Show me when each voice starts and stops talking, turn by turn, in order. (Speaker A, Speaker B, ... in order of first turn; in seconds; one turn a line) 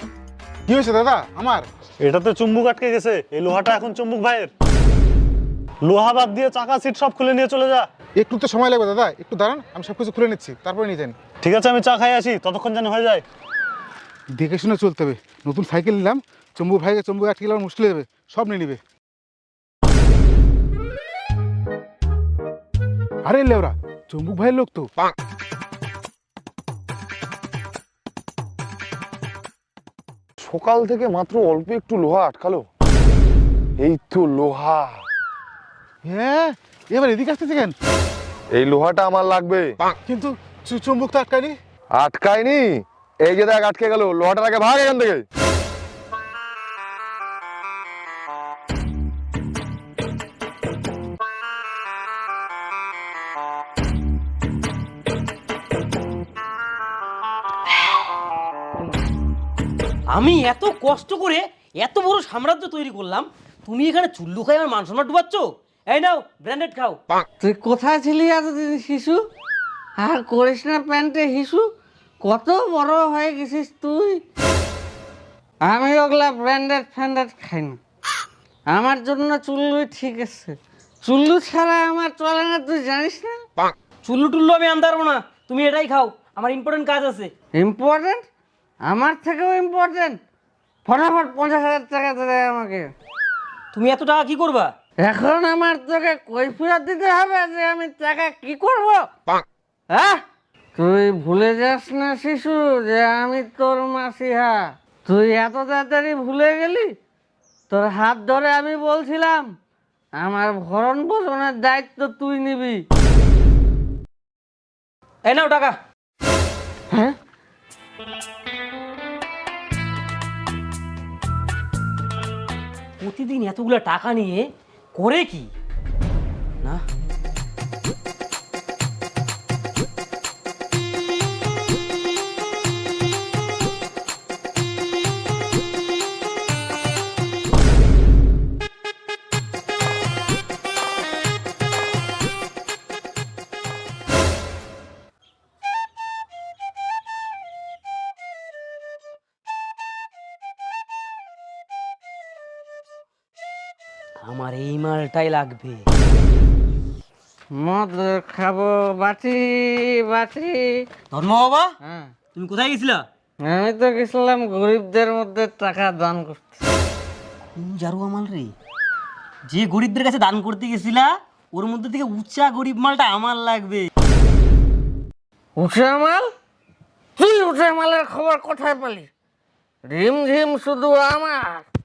Speaker A: 0.7-1.6
Speaker B: 2.0-4.5
Speaker B: 5.8-7.8
Speaker A: 8.2-11.2
Speaker B: 11.4-13.2
Speaker A: 14.3-18.8
Speaker A: 23.2-24.9
Speaker C: 30.4-32.7
Speaker C: 33.8-35.0
Speaker A: 36.0-37.7
Speaker C: 38.5-39.8
Speaker A: 40.1-41.5
Speaker C: 41.9-45.2
Speaker D: 60.1-67.0
Speaker E: 67.4-69.2
Speaker E: 70.0-71.7
Speaker E: 72.2-74.2
Speaker E: 75.7-77.8
Speaker E: 78.7-83.4
Speaker D: 84.0-87.3
Speaker E: 87.5-88.2
Speaker E: 88.8-90.2
Speaker E: 90.8-92.9
Speaker D: 93.7-94.7
Speaker E: 95.0-99.1
Speaker E: 99.9-100.2
Speaker E: 100.8-106.9
Speaker E: 107.7-109.5
Speaker E: 110.2-112.8
Speaker D: 115.2-115.8
Speaker E: 116.9-117.2
Speaker D: 123.0-125.5
Speaker D: 154.2-155.9
Speaker E: 157.5-160.9
Speaker D: 161.1-161.7
Speaker E: 161.8-162.1
Speaker D: 162.3-163.0
Speaker E: 163.4-166.5
Speaker D: 167.5-168.5
Speaker D: 169.5-173.9
Speaker E: 175.6-176.3
Speaker E: 177.2-179.1
Speaker E: 179.8-181.6